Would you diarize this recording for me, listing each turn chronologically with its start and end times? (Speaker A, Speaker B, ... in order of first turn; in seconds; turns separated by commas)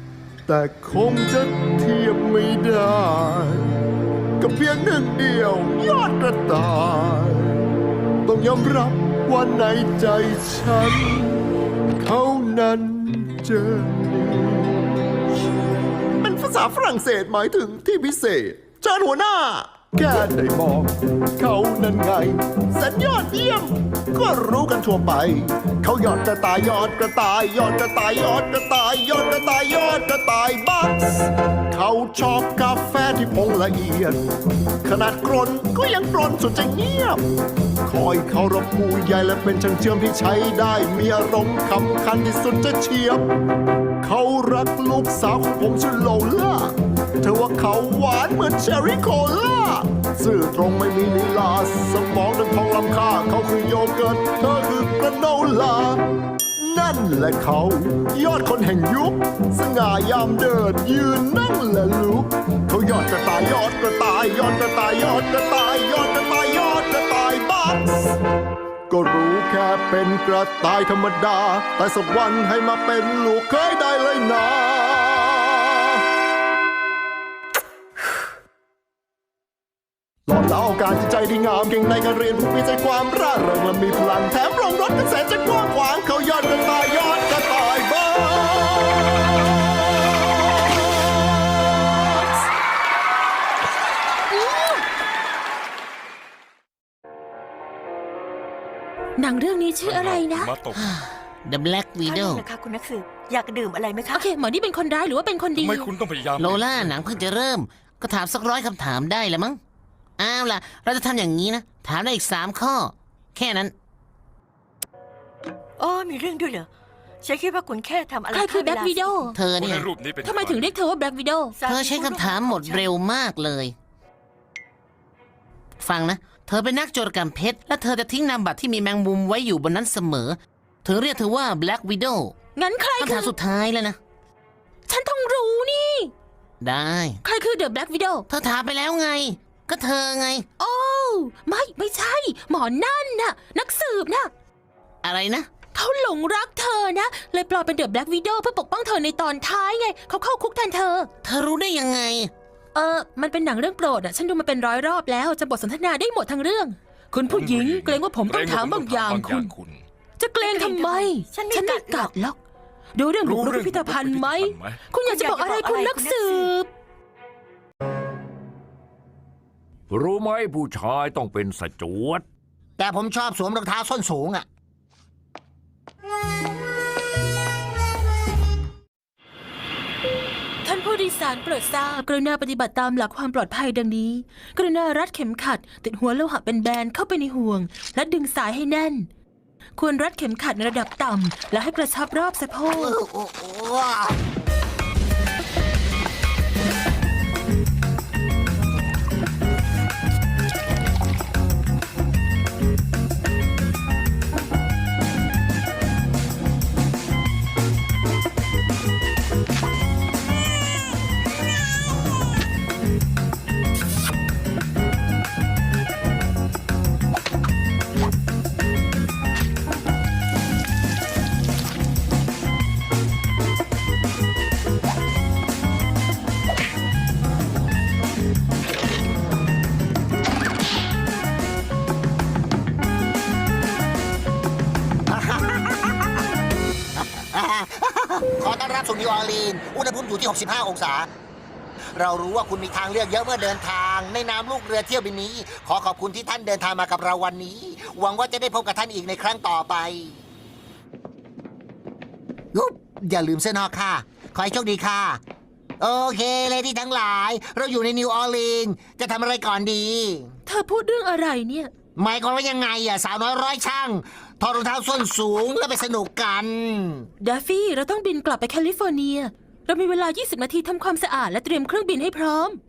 Speaker A: 0.5-3.8, Speaker A: 4.4-7.7, Speaker A: 8.2-11.4, Speaker A: 12.0-14.9, Speaker A: 16.2-34.2, Speaker A: 34.8-37.2, Speaker A: 37.8-43.2, Speaker A: 44.0-56.0, Speaker A: 56.6-68.2, Speaker A: 68.9-76.0, Speaker A: 80.3-89.3, Speaker B: 94.3-94.8, Speaker B: 99.2-100.5, Speaker C: 99.8-100.9, Speaker D: 100.7-102.4, Speaker E: 102.0-104.3, Speaker B: 104.1-105.9, Speaker C: 105.6-106.9, Speaker D: 106.4-109.6, Speaker D: 110.2-113.7, Speaker E: 115.8-116.7, Speaker E: 117.2-119.3, Speaker B: 118.3-119.4, Speaker D: 119.3-119.9, Speaker C: 119.5-120.7, Speaker B: 120.2-121.5, Speaker E: 121.6-122.9, Speaker D: 121.7-123.7, Speaker D: 125.8-132.3, Speaker B: 132.5-133.3, Speaker D: 133.0-134.0, Speaker B: 134.9-136.1, Speaker D: 136.6-137.2, Speaker B: 137.2-138.3, Speaker D: 138.3-140.5, Speaker B: 140.6-144.3, Speaker D: 145.0-145.5, Speaker B: 145.7-151.1, Speaker D: 151.2-152.3, Speaker B: 152.7-159.5, Speaker C: 157.3-159.8, Speaker B: 160.2-162.4, Speaker E: 160.4-162.1, Speaker B: 162.9-166.7, Speaker C: 163.2-164.8, Speaker E: 165.1-166.5, Speaker F: 169.9-172.2, Speaker G: 172.8-174.4, Speaker B: 180.6-189.1, Speaker B: 189.8-193.0, Speaker G: 192.8-194.2, Speaker G: 235.1-236.1, Speaker G: 237.0-241.1, Speaker G: 241.9-250.2, Speaker G: 252.5-255.2, Speaker G: 255.8-260.3, Speaker B: 260.4-261.7, Speaker G: 261.9-267.1, Speaker B: 267.2-272.6